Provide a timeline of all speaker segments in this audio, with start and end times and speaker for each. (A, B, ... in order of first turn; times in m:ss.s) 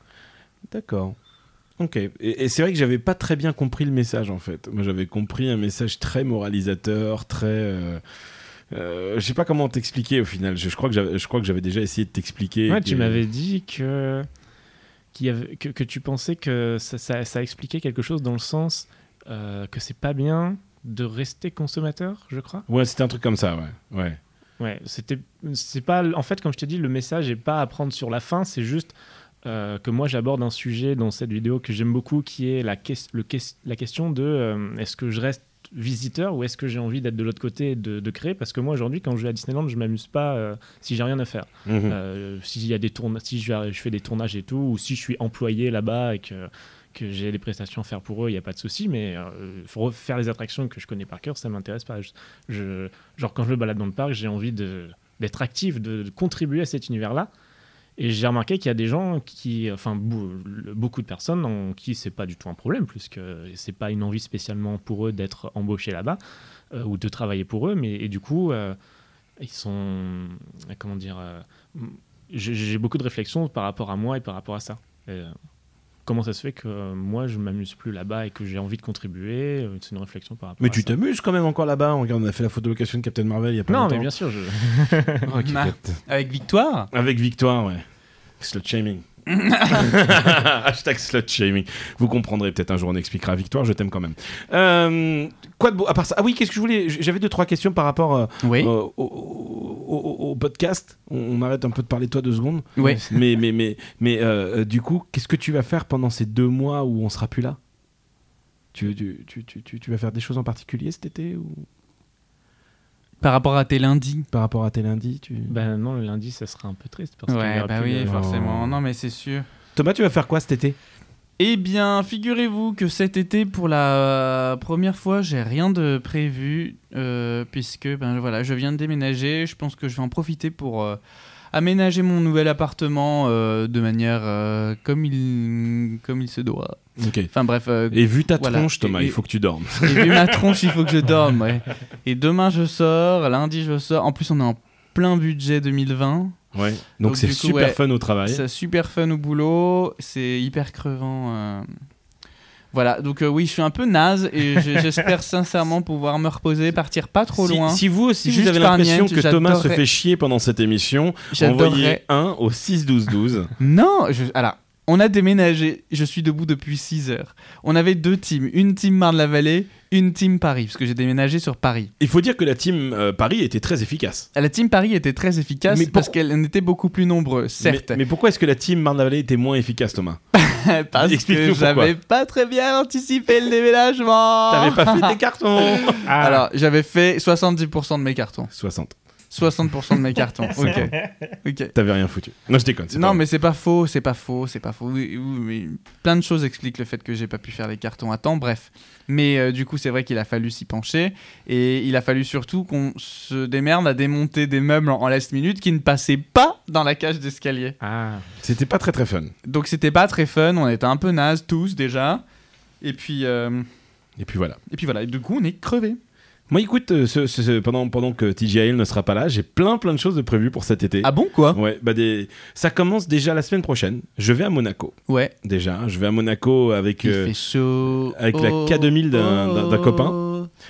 0:00.7-0:01.2 A
0:01.8-0:08.0 A
0:08.7-0:13.2 A
0:12.7-0:14.3 B
0:15.1-0:22.6 B
0:22.7-0:24.2 A
0:24.6-0:28.9 B
0:29.4-0:57.3 B
0:41.6-0:42.0 A
0:58.0-1:06.2 B
1:06.7-1:08.8 B
1:09.4-1:15.3 B
1:16.0-1:20.9 B
1:20.6-1:24.1 A
1:23.7-1:25.3 B
1:25.2-1:26.0 A
1:25.4-1:26.9 C
1:26.9-1:27.8 A
1:28.4-1:29.0 A
1:29.3-1:29.9 C
1:29.6-1:47.6 A
1:38.4-1:38.7 C
1:42.8-1:43.0 C
1:48.7-1:51.6 A
1:53.2-1:54.3 C
1:54.3-1:55.5 A
1:55.5-1:58.2 B
1:57.3-1:59.4 C
1:58.0-1:58.8 A
1:59.7-2:00.8 A
2:01.4-2:11.0 C
2:11.5-2:16.8 C
2:17.0-2:17.3 A
2:17.3-2:19.2 C
2:17.9-2:20.5 A
2:19.8-2:26.4 C
2:26.5-2:28.4 A
2:27.0-2:31.7 C
2:32.7-2:39.8 C
2:37.4-2:43.5 A
2:41.3-2:42.0 C
2:43.6-2:51.9 C
2:52.0-2:54.3 A
2:54.3-2:58.0 C
2:55.7-2:56.1 A
2:57.6-3:00.2 A
3:00.3-3:05.2 C
3:00.9-3:01.9 A
3:04.5-3:06.1 A
3:05.7-3:08.5 C
3:06.0-3:06.4 B
3:08.5-3:08.9 A
3:09.3-3:11.7 C
3:10.6-3:10.9 A
3:10.6-3:11.1 B
3:11.7-3:13.2 A
3:12.9-3:27.7 C
3:27.8-3:28.3 B
3:28.4-3:29.3 A
3:29.4-3:32.2 C
3:32.8-3:33.7 C
3:34.2-3:34.6 A
3:34.7-3:36.0 C
3:36.5-3:47.3 A
3:41.0-3:41.6 C
3:45.1-3:45.3 C
3:47.0-3:50.5 C
3:47.9-3:50.2 A